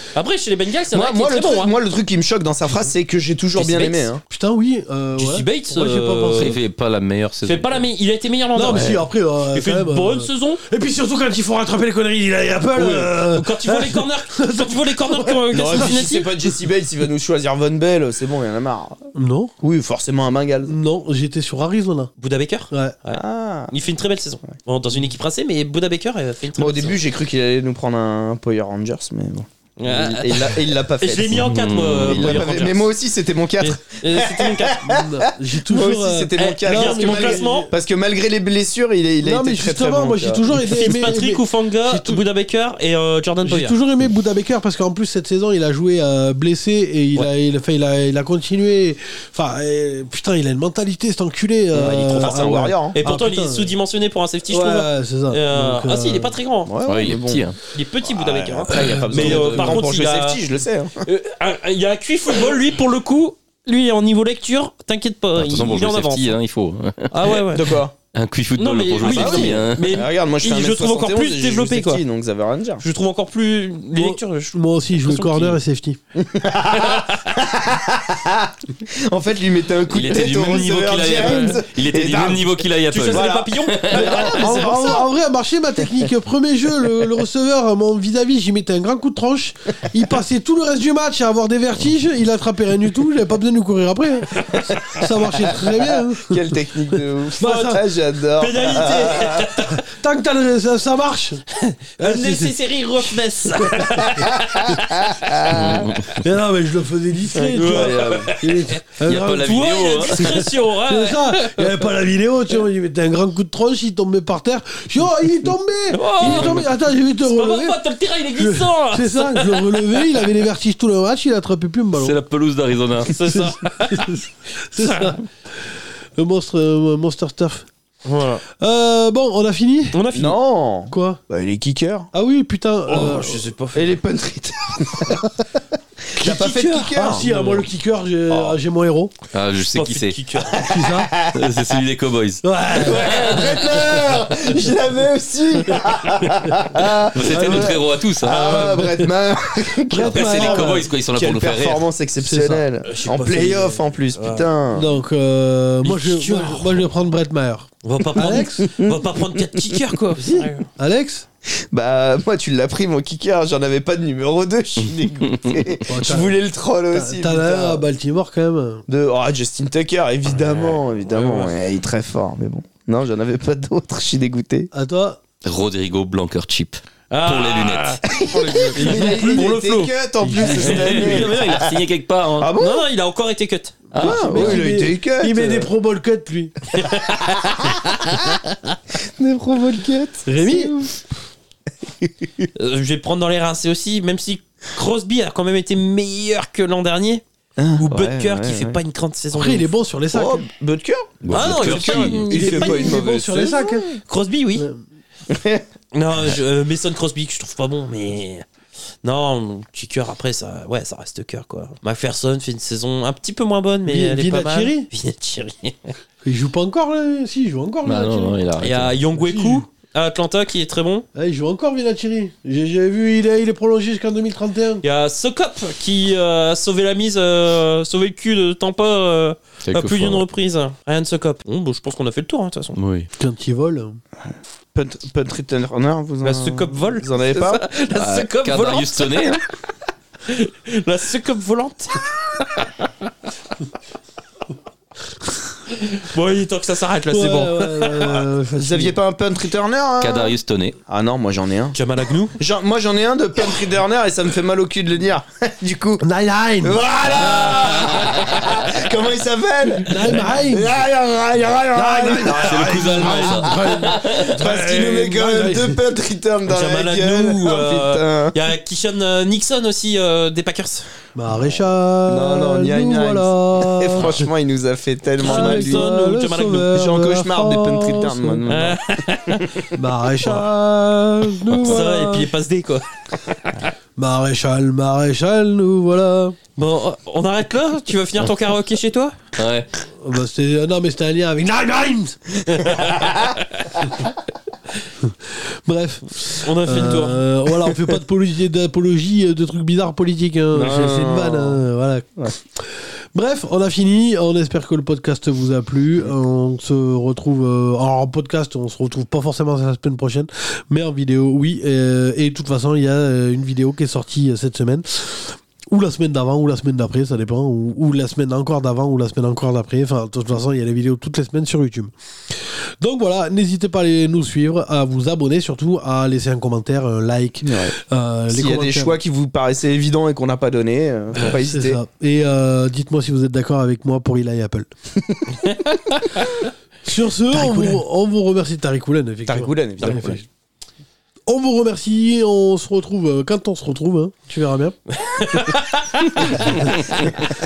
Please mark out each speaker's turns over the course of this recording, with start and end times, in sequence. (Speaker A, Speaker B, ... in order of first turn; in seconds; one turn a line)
Speaker A: 0.1-1.7
Speaker B: 0.9-4.2
Speaker A: 3.5-4.1
Speaker C: 4.3-6.6
Speaker A: 5.2-6.6
Speaker D: 6.3-7.8
Speaker A: 7.4-10.6
Speaker C: 8.5-16.1
Speaker B: 8.7-9.0
Speaker A: 12.7-16.3
Speaker B: 15.5-19.0
Speaker C: 19.1-19.5
Speaker B: 19.6-20.7
Speaker C: 20.6-22.1
Speaker A: 22.2-27.0
Speaker C: 22.7-23.0
Speaker B: 23.1-23.7
Speaker B: 26.6-40.6
Speaker A: 29.8-32.9
Speaker D: 31.3-32.5
Speaker A: 33.6-34.8
Speaker C: 34.8-37.7
Speaker A: 36.4-37.7
Speaker C: 39.2-42.2
Speaker A: 40.6-43.8
Speaker C: 43.4-53.7
Speaker A: 51.7-56.7
Speaker B: 52.2-53.0
Speaker C: 54.5-56.4
Speaker B: 56.6-57.5
Speaker D: 56.8-57.6
Speaker A: 57.7-60.4
Speaker B: 58.0-61.0
Speaker C: 58.7-59.9
Speaker A: 61.0-66.3
Speaker D: 65.3-67.4
Speaker A: 67.1-67.8
Speaker B: 67.5-67.9
Speaker D: 68.1-69.9
Speaker A: 68.5-72.0
Speaker B: 69.0-72.8
Speaker A: 72.8-75.6
Speaker C: 73.9-76.0
Speaker B: 76.2-85.1
Speaker A: 76.7-77.4
Speaker D: 79.9-84.1
Speaker A: 82.9-85.0
Speaker C: 83.9-97.8
Speaker B: 94.7-99.7
Speaker A: 98.4-99.8
Speaker C: 99.7-101.4
Speaker A: 101.6-105.5
Speaker C: 102.0-102.5
Speaker C: 103.6-104.1
Speaker B: 104.2-105.9
Speaker D: 105.5-106.1
Speaker C: 106.2-117.8
Speaker B: 107.3-108.3
Speaker A: 107.5-108.7
Speaker D: 109.0-110.3
Speaker A: 109.4-111.8
Speaker A: 115.9-120.3
Speaker D: 116.2-116.7
Speaker C: 118.4-122.2
Speaker D: 121.9-123.2
Speaker A: 123.1-124.2
Speaker C: 123.3-127.7
Speaker A: 124.7-125.2
Speaker A: 128.0-128.4
Speaker C: 128.6-130.0
Speaker A: 129.9-130.4
Speaker B: 130.1-132.1
Speaker C: 130.9-131.2
Speaker C: 132.1-133.4
Speaker A: 132.9-134.0
Speaker B: 133.7-135.3
Speaker B: 136.1-137.3
Speaker C: 136.2-139.1
Speaker A: 137.2-137.7
Speaker B: 138.3-138.6
Speaker D: 139.3-140.2
Speaker A: 139.6-140.6
Speaker B: 140.5-141.6
Speaker C: 140.6-141.1
Speaker D: 141.2-143.9
Speaker C: 142.4-144.6
Speaker B: 142.8-154.9
Speaker C: 145.7-146.6
Speaker D: 146.9-148.7
Speaker C: 147.3-147.7
Speaker C: 148.4-149.1
Speaker C: 149.8-150.9
Speaker D: 149.9-151.8
Speaker C: 152.2-152.7
Speaker A: 152.8-154.5
Speaker C: 154.7-158.7
Speaker A: 155.8-156.9
Speaker A: 157.8-160.7
Speaker B: 158.2-159.8
Speaker C: 160.2-161.2
Speaker B: 161.5-167.8
Speaker D: 164.8-165.7
Speaker C: 165.9-166.4
Speaker C: 166.9-168.8
Speaker B: 168.9-174.7
Speaker A: 170.2-171.6
Speaker C: 174.7-175.2
Speaker D: 175.4-178.0
Speaker A: 177.1-181.9
Speaker B: 178.1-181.6
Speaker C: 178.8-179.4
Speaker D: 180.3-182.6
Speaker B: 182.4-182.8
Speaker A: 182.5-183.9
Speaker D: 183.9-184.6
Speaker B: 183.9-185.7
Speaker C: 184.0-186.5
Speaker A: 186.7-188.4
Speaker B: 187.2-188.4
Speaker B: 189.2-190.9
Speaker C: 190.2-190.9
Speaker B: 192.0-192.4
Speaker A: 192.6-197.2
Speaker B: 197.6-198.8
Speaker A: 197.8-199.7
Speaker C: 199.3-200.4
Speaker B: 200.1-204.0
Speaker D: 201.2-202.3
Speaker A: 201.3-203.0
Speaker C: 202.3-203.9
Speaker A: 204.0-204.7
Speaker C: 204.6-204.8
Speaker B: 205.3-205.6
Speaker A: 205.9-208.4
Speaker A: 209.0-215.9
Speaker C: 213.8-214.9
Speaker C: 216.2-218.4
Speaker D: 217.8-219.0
Speaker A: 218.6-221.1
Speaker C: 219.2-219.7
Speaker C: 221.1-224.8
Speaker A: 224.8-232.8
Speaker D: 229.6-230.2
Speaker D: 232.8-233.1
Speaker C: 233.2-234.0
Speaker B: 234.3-237.6
Speaker A: 236.2-239.4
Speaker D: 237.9-239.4
Speaker A: 240.2-242.9
Speaker A: 245.7-248.2
Speaker C: 247.1-249.0
Speaker B: 248.6-250.3
Speaker D: 250.0-250.8
Speaker B: 250.9-251.8
Speaker A: 251.7-252.4
Speaker B: 252.4-256.1
Speaker C: 256.0-256.8
Speaker B: 256.6-268.3
Speaker A: 257.0-258.2
Speaker C: 259.8-260.8
Speaker C: 261.7-265.8
Speaker D: 262.4-264.4
Speaker A: 266.4-270.9
Speaker C: 271.1-274.3
Speaker B: 271.3-275.9
Speaker A: 275.2-276.7
Speaker C: 275.2-278.4
Speaker B: 276.7-279.7
Speaker A: 278.5-279.6
Speaker C: 279.7-282.3
Speaker D: 281.5-281.8
Speaker A: 281.6-282.8
Speaker C: 284.0-286.4
Speaker A: 286.6-289.1
Speaker D: 289.4-289.7
Speaker C: 290.0-292.3
Speaker A: 292.6-293.3
Speaker B: 292.7-293.1
Speaker C: 295.0-329.0
Speaker A: 296.4-297.2
Speaker B: 300.5-301.6
Speaker B: 327.4-327.7
Speaker B: 328.3-331.8
Speaker C: 331.2-334.7
Speaker C: 336.8-340.2
Speaker B: 337.3-337.8
Speaker B: 339.3-340.2
Speaker A: 339.8-340.1
Speaker C: 341.3-344.8
Speaker A: 344.9-347.1
Speaker C: 346.2-346.7
Speaker D: 346.4-346.8